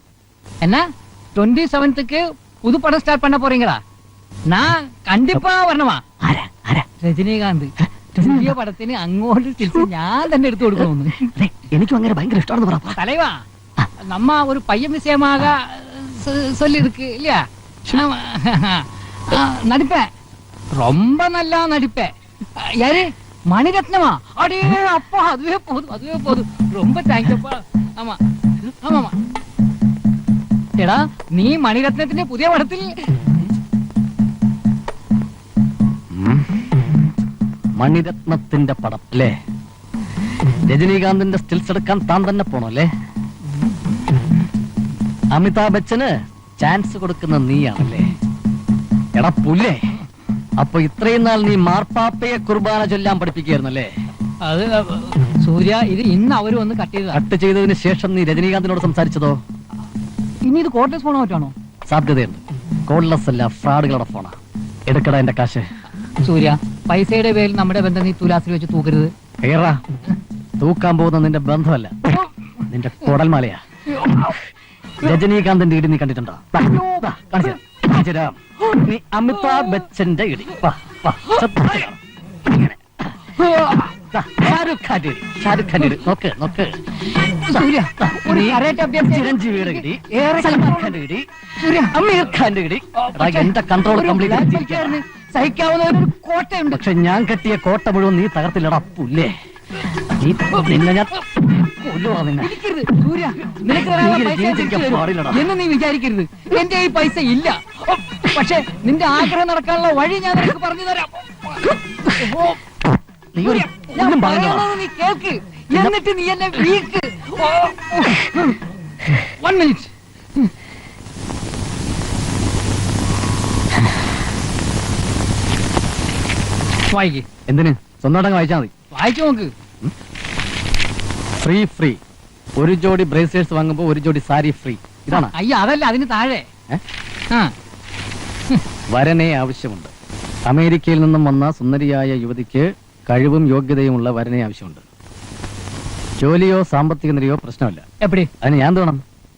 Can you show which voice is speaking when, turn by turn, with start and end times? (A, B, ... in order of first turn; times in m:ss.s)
0:01.4-0:03.8 A
0:04.5-0:06.0 A
0:06.2-0:06.9 B
0:07.0-0:11.3 A
0:08.1-0:08.5 B
0:09.7-0:09.9 B
0:11.2-0:13.0 B
0:13.0-0:13.4 A
0:14.0-0:20.1 A
0:20.8-0:29.2 A
0:30.8-0:33.3 A
0:36.1-0:36.7 B
0:37.8-0:39.3 B
0:40.6-0:42.9 B
0:45.3-0:48.2 B
0:49.2-0:49.9 B
0:50.6-0:53.9 B
0:54.4-0:57.2 A
0:57.1-0:59.4 B
1:00.4-1:01.5 A
1:01.9-1:05.7 B
1:06.2-1:09.1 A
1:09.4-1:09.8 B
1:10.6-1:12.1 B
1:12.2-1:12.6 A
1:12.7-1:14.4 B
1:13.9-1:14.4 A
1:15.0-1:23.2 B
1:16.6-1:17.1 A
1:21.2-1:21.6 A
1:23.3-1:23.9 A
1:24.1-1:35.0 B
1:27.2-1:31.0 A
1:31.6-1:32.0 A
1:33.0-1:36.8 A
1:36.7-1:39.3 B
1:39.9-1:42.6 B
1:42.4-1:52.6 A
1:43.7-1:45.5 B
1:51.9-1:52.4 B
1:53.3-1:54.8 B
1:53.4-1:58.6 A
1:59.2-1:59.9 A
2:06.9-2:07.2 A
2:07.5-2:08.7 B
2:08.9-2:09.5 A
2:11.4-2:12.0 B
2:12.6-2:15.3 B
2:15.1-2:16.4 A
2:18.9-2:19.9 B
2:20.5-2:24.8 B
2:26.2-2:27.8 B
2:28.0-2:28.3 A
2:28.4-2:29.0 B